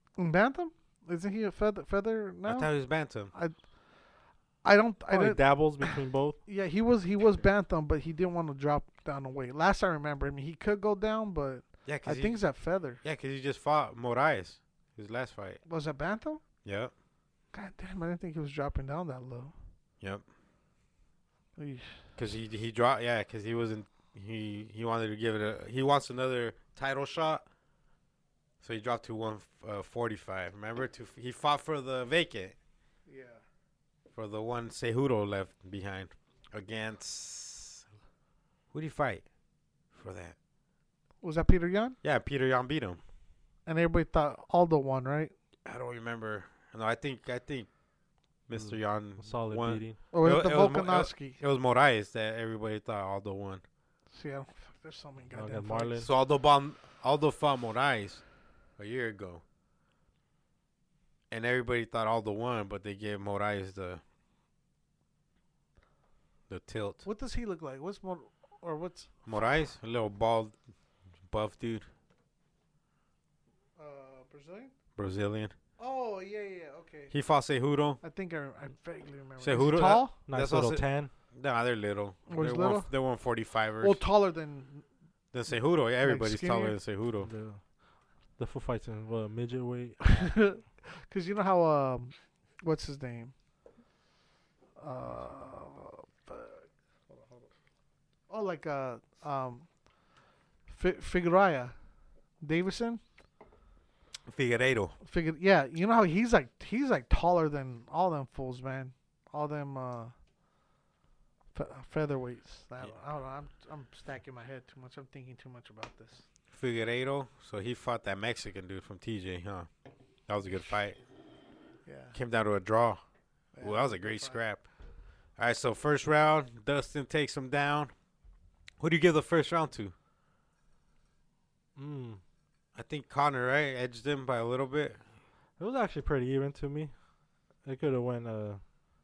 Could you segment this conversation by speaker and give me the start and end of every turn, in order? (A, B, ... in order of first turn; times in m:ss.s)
0:00.2-0:03.6 A
0:02.5-0:03.3 B
0:04.6-0:13.0 A
0:05.1-0:06.4 C
0:11.8-0:15.6 B
0:15.6-0:16.4 A
0:16.6-0:16.9 B
0:17.5-0:19.6 A
0:21.6-0:22.1 A
0:22.2-0:27.4 B
0:28.6-0:32.6 B
0:33.1-0:33.4 A
0:34.1-0:37.8 B
0:38.7-0:39.2 B
0:39.9-0:40.4 B
0:41.2-0:42.0 A
0:42.0-0:43.0 B
0:43.7-0:45.3 A
0:45.6-0:47.7 B
0:48.5-0:53.6 B
0:48.5-0:50.0 C
0:50.1-0:51.4 A
0:54.1-0:56.0 A
0:55.3-0:56.1 C
0:56.0-0:58.2 B
0:58.8-0:59.4 B
1:01.3-1:04.0 B
1:06.5-1:07.0 B
1:07.0-1:09.3 A
1:09.3-1:10.6 B
1:11.2-1:11.9 B
1:13.8-1:14.7 A
1:15.0-1:15.6 B
1:15.8-1:17.1 A
1:17.1-1:18.0 B
1:18.0-1:20.2 A
1:19.4-1:24.0 B
1:20.3-1:21.1 C
1:22.3-1:22.9 A
1:23.8-1:24.9 A
1:25.3-1:27.3 B
1:25.5-1:26.8 A
1:27.2-1:30.4 C
1:30.1-1:33.3 A
1:34.8-1:37.5 A
1:38.3-1:39.9 A
1:40.7-1:41.8 A
1:42.4-1:43.0 A
1:44.3-1:45.0 B
1:45.0-1:50.1 A
1:51.5-1:56.2 A
1:56.5-1:59.7 B
2:00.3-2:01.0 B
2:01.8-2:02.2 A
2:02.1-2:03.0 B
2:03.6-2:04.4 A
2:03.6-2:04.7 B
2:05.4-2:07.9 B
2:08.8-2:09.9 B
2:11.8-2:12.2 C
2:12.8-2:15.0 B
2:15.6-2:16.9 C
2:17.6-2:18.7 C